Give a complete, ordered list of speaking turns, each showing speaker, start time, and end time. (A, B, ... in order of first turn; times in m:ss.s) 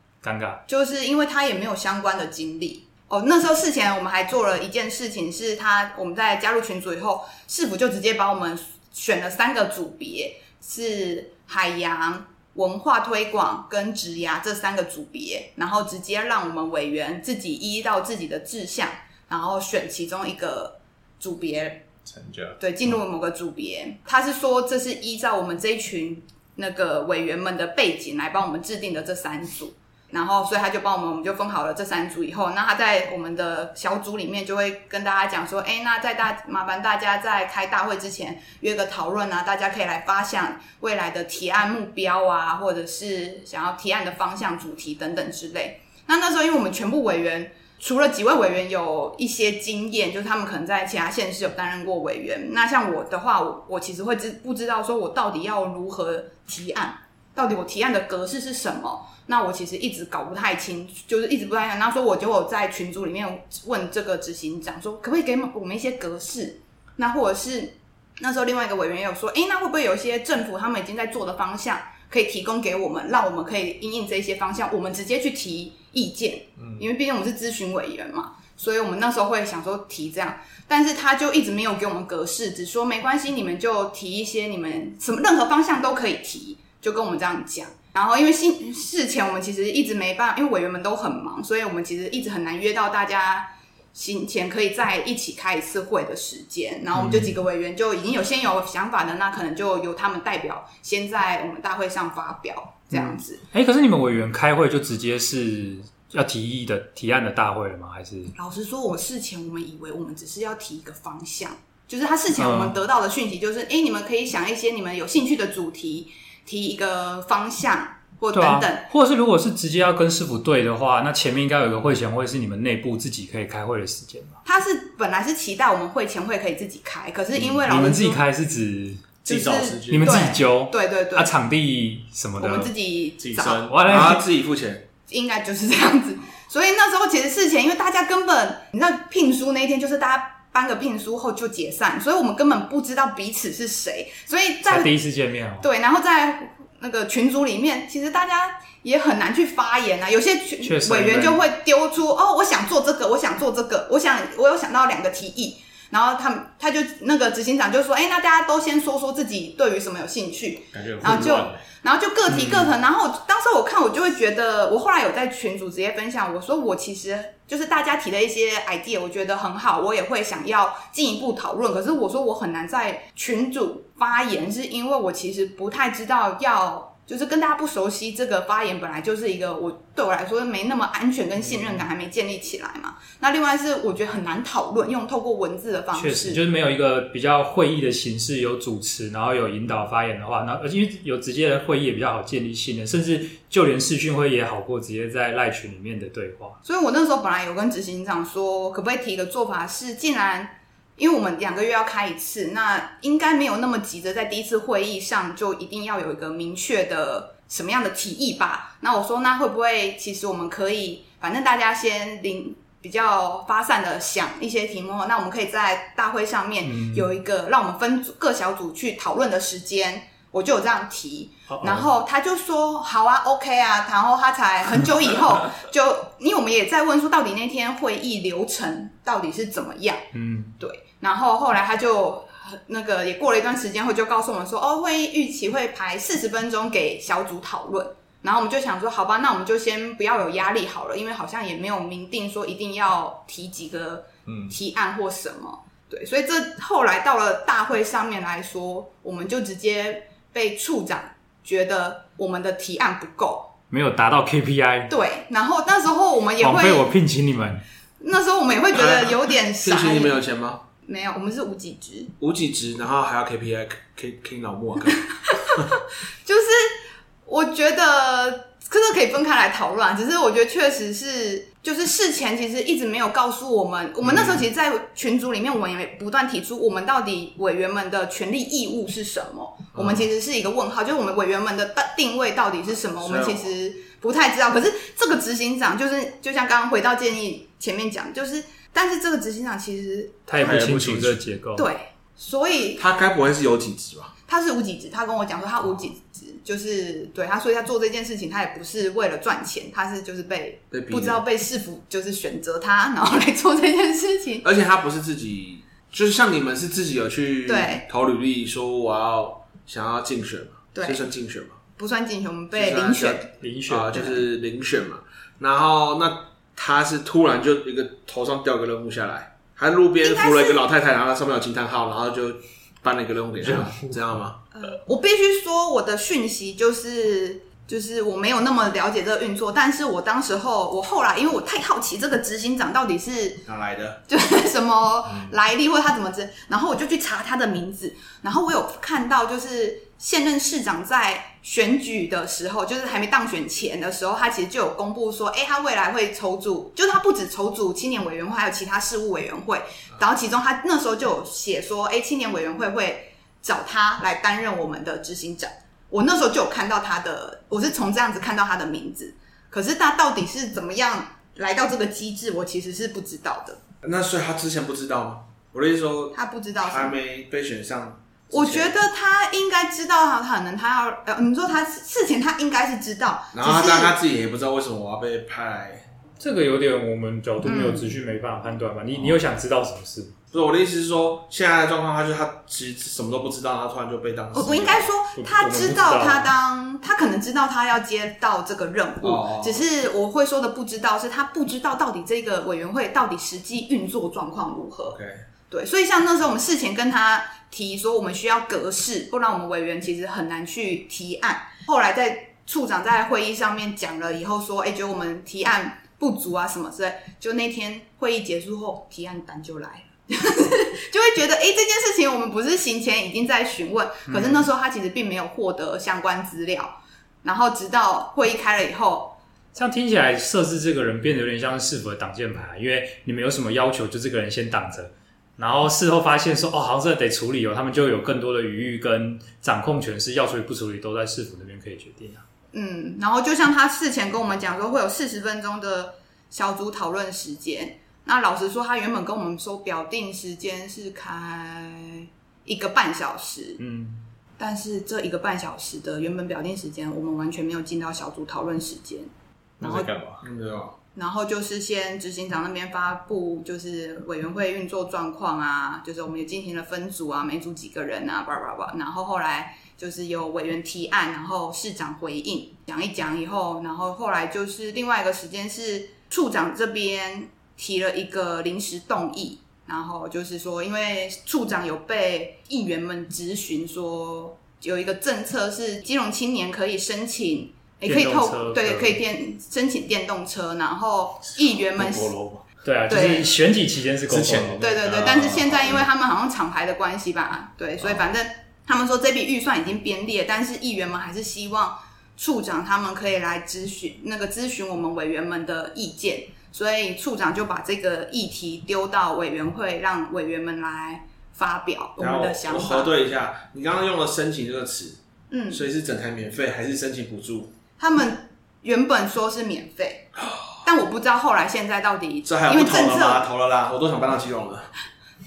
0:00.2-0:00.6 A
0:00.7-0:21.8 B
0:22.0-0:22.6 C
0:22.6-1:43.4 B
1:16.6-1:16.8 C
1:36.9-1:37.4 A
1:42.9-1:48.3 A
1:48.3-1:58.8 B
1:52.4-1:52.7 A
1:58.3-2:04.4 A
2:04.4-2:08.2 B
2:07.6-2:09.1 A
2:09.2-2:10.3 C
2:09.2-2:11.3 B
2:09.9-2:12.7 A
2:12.4-2:13.7 B
2:13.2-2:13.8 C
2:13.6-2:14.2 A
2:13.8-2:14.8 D
2:15.1-2:24.9 B
2:24.6-2:25.7 A
2:25.6-3:06.4 B
2:30.6-2:31.4 A
2:40.7-2:41.6 C
2:42.3-2:42.7 A
3:05.9-3:16.6 A
3:16.6-3:50.0 B
3:36.6-3:37.1 A
3:41.5-3:41.9 A
3:50.1-3:50.5 A
3:50.6-4:13.5 B
4:04.3-4:04.5 C
4:13.7-4:14.9 A
4:14.9-4:16.9 B
4:16.4-4:17.6 A
4:18.0-4:20.2 B
4:18.7-4:20.6 D
4:20.8-4:22.1 B
4:22.2-4:25.0 D
4:25.3-4:50.3 B
4:39.7-4:40.1 D
4:43.0-4:43.5 D
4:50.3-4:51.7 A
4:50.4-4:51.2 C
4:51.6-4:52.8 B
4:52.8-4:54.1 D
4:54.3-5:04.4 B
5:00.7-5:01.2 D
5:04.4-5:11.6 D
5:07.4-5:07.8 B
5:10.7-5:11.0 B
5:11.8-5:13.3 B
5:12.5-5:24.4 D
5:13.4-5:14.1 A
5:13.9-5:14.2 B
5:20.0-5:20.6 B
5:23.4-5:24.0 A
5:24.5-5:33.4 B
5:33.4-5:34.0 D
5:34.1-6:03.6 B
6:03.8-6:08.7 D
6:06.1-6:07.0 B
6:08.3-6:14.0 B
6:13.3-6:15.8 D
6:16.2-6:20.2 A
6:17.4-6:17.9 B
6:20.3-6:24.9 D
6:24.3-6:59.2 B
6:25.2-6:26.3 A
6:29.0-6:29.6 D
6:34.9-6:35.2 D
6:54.1-6:54.5 A
6:59.5-7:12.2 A
7:12.5-7:23.6 B
7:23.6-7:24.0 A
7:24.4-7:29.1 B
7:29.6-7:30.2 C
7:29.6-7:29.9 B
7:30.2-7:30.8 D
7:30.9-8:02.2 B
7:57.8-7:59.0 A
8:01.5-8:02.4 C
8:02.6-8:04.6 A
8:02.9-8:03.3 B
8:04.1-8:05.8 C
8:04.6-8:22.9 B
8:22.0-8:25.0 D
8:25.3-8:25.7 B
8:25.5-8:27.5 D
8:27.8-8:30.1 B
8:30.6-8:33.3 B
8:32.2-8:34.7 D